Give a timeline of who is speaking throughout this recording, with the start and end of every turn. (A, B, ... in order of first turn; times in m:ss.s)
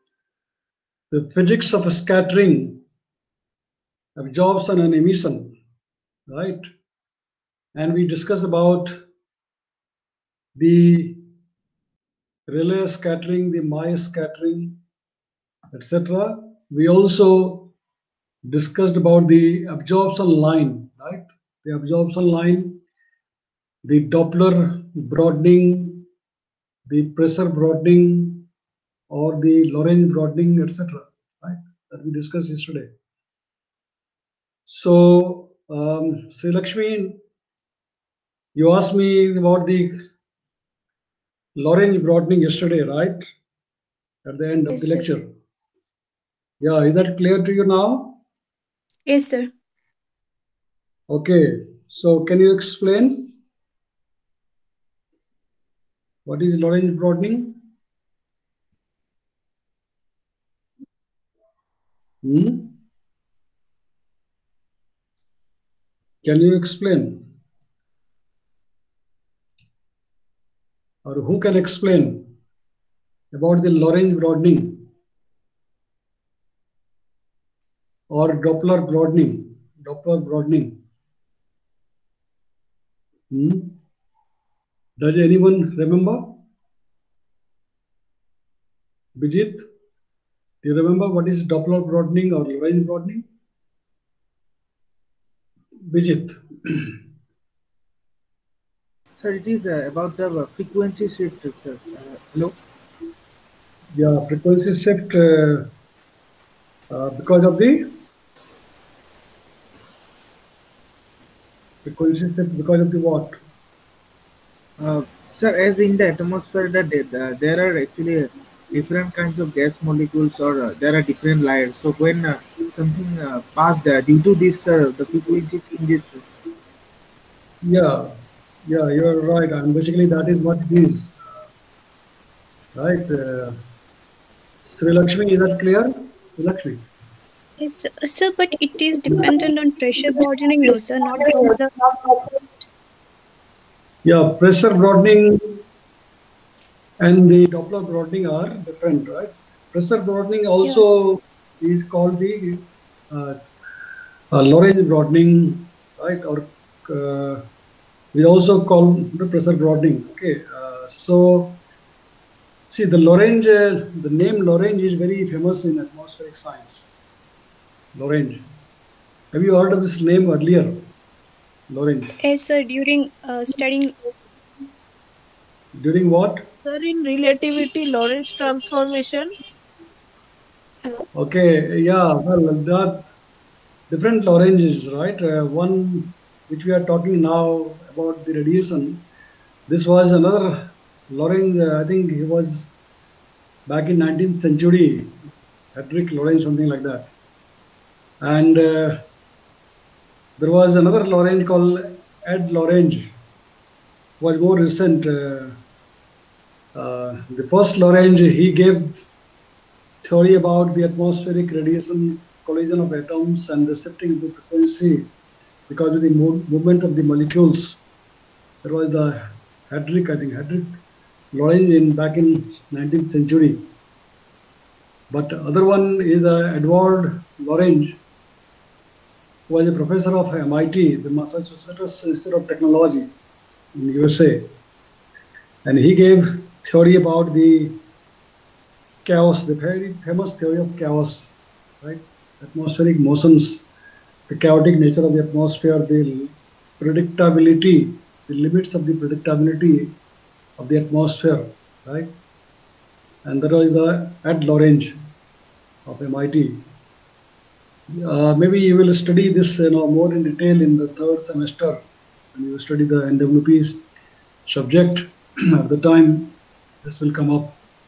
0:01.1-0:02.8 A
0:04.2-0:05.5 A
0:06.3-0:06.7 A
0:07.8-0:09.0 A
0:10.6-0:11.2 A
0:12.5-0:14.8 A
0:15.7-0:17.7 A
0:18.4-0:22.8 A
0:23.8-0:26.0 A
0:26.9-0:28.4 A
0:29.1-0:32.9 A
0:34.7-0:37.2 A
0:38.6-0:40.0 A
0:41.6-0:43.3 A
0:44.2-0:45.3 A
0:44.7-0:45.0 B
0:46.6-0:48.2 A
0:49.0-0:49.5 B
0:51.1-0:53.3 A
0:56.3-0:57.6 A
1:02.2-1:02.8 A
1:06.2-1:07.2 A
1:11.0-1:12.3 A
1:13.3-1:14.9 A
1:18.1-1:20.8 A
1:23.3-1:23.8 A
1:25.0-1:26.4 A
1:29.2-1:29.7 A
1:30.6-1:33.2 A
1:35.9-1:37.0 A
1:39.2-1:42.6 C
1:44.0-1:45.7 A
1:46.9-1:47.9 A
1:51.8-1:53.4 A
1:54.8-2:06.3 C
2:07.6-2:08.1 A
2:08.7-2:11.3 A
2:12.8-2:13.6 A
2:14.7-2:16.8 A
2:17.6-2:21.7 B
2:24.0-2:25.4 A
2:27.0-2:33.4 A
2:30.6-2:31.0 B
2:34.3-2:37.4 A
2:38.1-2:41.6 A
2:42.7-2:46.9 A
2:47.9-2:48.4 A
2:49.3-2:50.8 A
2:51.7-2:52.1 A
2:52.2-2:53.9 B
2:55.8-2:56.4 A
2:56.6-2:59.3 D
3:01.1-3:03.0 A
3:03.9-3:09.0 A
3:09.7-3:12.7 A
3:13.7-3:15.2 A
3:15.8-3:17.1 A
3:18.2-3:19.0 A
3:20.4-3:23.1 A
3:24.2-3:25.6 A
3:26.8-3:29.0 A
3:30.0-3:35.1 A
3:35.7-3:37.8 A
3:38.6-3:40.8 A
3:41.3-3:43.6 A
3:45.1-3:48.0 A
3:49.5-3:53.1 A
3:53.8-3:54.5 A
3:55.6-3:57.8 A
3:59.0-4:03.6 A
4:04.3-4:09.9 A
4:10.6-4:12.1 A
4:13.2-4:14.9 A
4:15.8-4:16.6 A
4:17.9-4:21.8 A
4:22.4-4:23.8 A
4:24.5-4:27.6 A